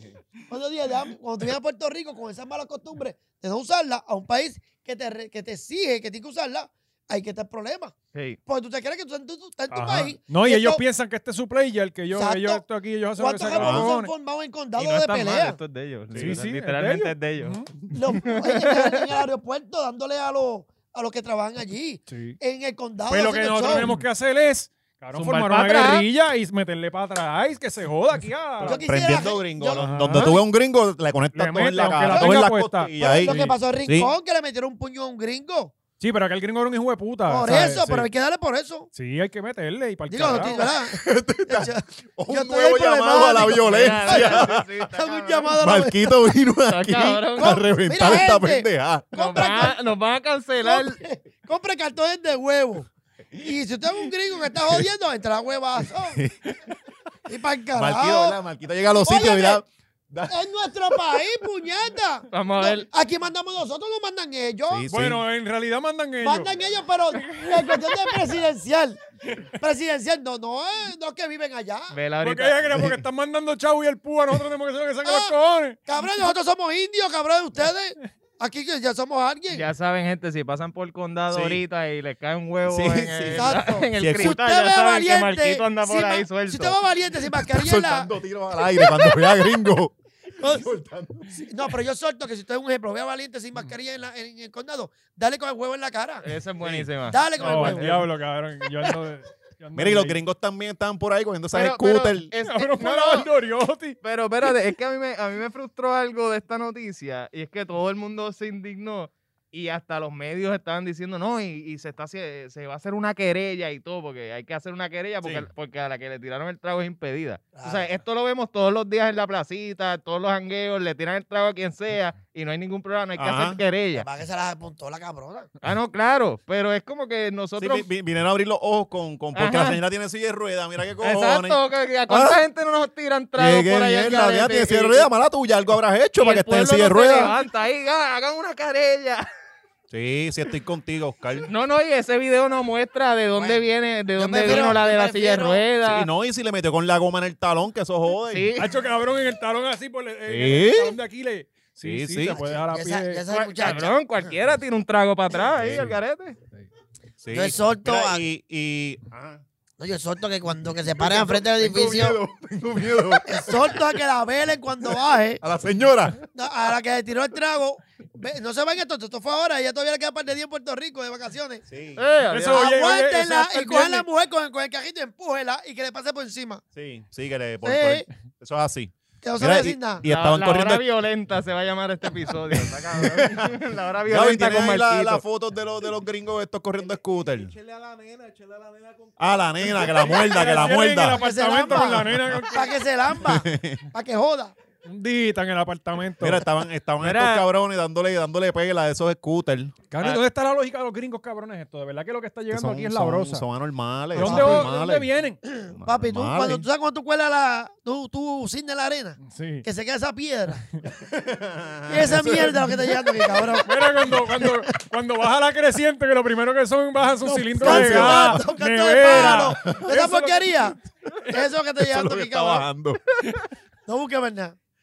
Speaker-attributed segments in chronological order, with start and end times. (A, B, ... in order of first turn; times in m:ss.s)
0:00.5-0:07.9 A
0:08.4-0:10.8 A
0:09.7-0:14.1 B
0:12.1-0:12.6 A
0:13.2-0:15.6 A
0:13.5-0:13.9 C
0:14.8-0:17.6 D
0:16.1-0:16.4 C
0:16.2-0:17.7 B
0:17.9-0:23.9 A
0:18.2-0:19.2 D
0:22.1-0:22.4 B
0:23.1-0:28.8 B
0:25.1-0:26.0 D
0:28.6-0:30.3 A
0:28.7-0:34.1 C
0:29.8-0:30.4 B
0:31.3-0:33.6 B
0:32.0-0:32.4 A
0:33.0-0:35.7 A
0:36.0-0:38.1 B
0:37.3-0:38.9 A
0:38.9-0:40.6 B
0:40.1-0:46.2 A
0:40.6-0:44.6 C
0:43.6-0:45.6 D
0:45.6-0:49.1 C
0:46.7-0:47.6 D
0:47.4-0:49.8 A
0:49.1-0:51.0 D
0:50.6-0:56.2 A
0:54.6-0:54.8 C
0:55.8-0:56.7 C
0:57.3-0:58.4 A
0:57.7-1:00.4 C
0:58.9-0:59.6 A
1:00.2-1:04.9 A
1:02.3-1:02.9 D
1:04.7-1:05.2 C
1:04.9-1:06.5 B
1:06.2-1:09.0 A
1:07.1-1:08.2 B
1:09.6-1:12.0 A
1:11.9-1:12.7 D
1:12.2-1:15.8 B
1:15.0-1:15.3 A
1:15.8-1:19.6 A
1:19.5-1:26.8 D
1:21.3-1:21.6 C
1:22.7-1:24.4 C
1:23.4-1:28.1 A
1:27.3-1:31.5 C
1:28.7-1:29.3 A
1:30.4-1:30.7 A
1:31.4-1:36.2 A
1:36.2-1:37.8 D
1:36.6-1:36.9 C
1:37.1-1:38.0 A
1:37.4-1:40.2 B
1:39.7-1:42.3 C
1:41.5-1:43.3 D
1:42.4-1:44.0 B
1:44.0-2:04.0 D
1:55.2-1:55.5 C
1:57.5-1:57.9 A
2:03.2-2:03.6 C
2:03.9-2:05.5 A
2:05.6-2:07.8 D
2:07.6-2:12.4 C
2:09.3-2:09.8 D
2:11.0-2:15.1 D
2:13.4-2:17.3 C
2:16.2-2:19.3 D
2:19.9-2:21.5 C
2:21.5-2:26.1 D
2:23.3-2:23.6 A
2:24.2-2:25.6 A
2:24.5-2:24.7 C
2:25.8-2:28.5 C
2:28.3-2:28.7 D
2:28.6-2:33.2 B
2:30.3-2:31.0 C
2:31.8-2:32.4 C
2:32.3-2:34.0 A
2:33.3-2:36.4 D
2:35.6-2:35.9 C
2:37.2-2:39.4 C
2:37.3-2:38.2 A
2:39.8-2:42.2 A
2:40.9-2:43.9 C
2:43.2-2:45.4 A
2:45.4-2:46.2 C
2:46.3-2:51.6 A
2:51.7-2:52.0 C
2:52.0-2:52.6 D
2:52.3-2:54.0 B
2:52.5-2:56.6 A
2:56.7-3:00.8 C
2:57.6-2:58.1 A
2:59.2-3:00.0 A
3:00.0-3:05.2 D
3:02.6-3:07.5 C
3:06.8-3:10.8 E
3:09.2-3:11.2 C
3:10.0-3:12.7 B
3:11.1-3:14.5 A
3:13.2-3:13.8 C
3:14.8-3:16.4 B
3:16.2-3:20.2 C
3:17.0-3:17.4 D
3:19.9-3:23.4 B
3:22.5-3:25.1 C
3:24.1-3:25.4 B
3:24.2-3:24.7 A
3:25.5-3:30.7 A
3:25.7-3:26.6 C
3:29.2-3:29.6 B
3:31.0-3:33.6 C
3:31.9-3:33.7 A
3:33.6-3:40.6 B
3:34.1-3:34.5 C
3:37.2-3:42.6 A
3:37.6-3:38.4 C
3:39.0-3:39.9 C
3:41.8-3:43.4 C
3:43.8-3:44.6 A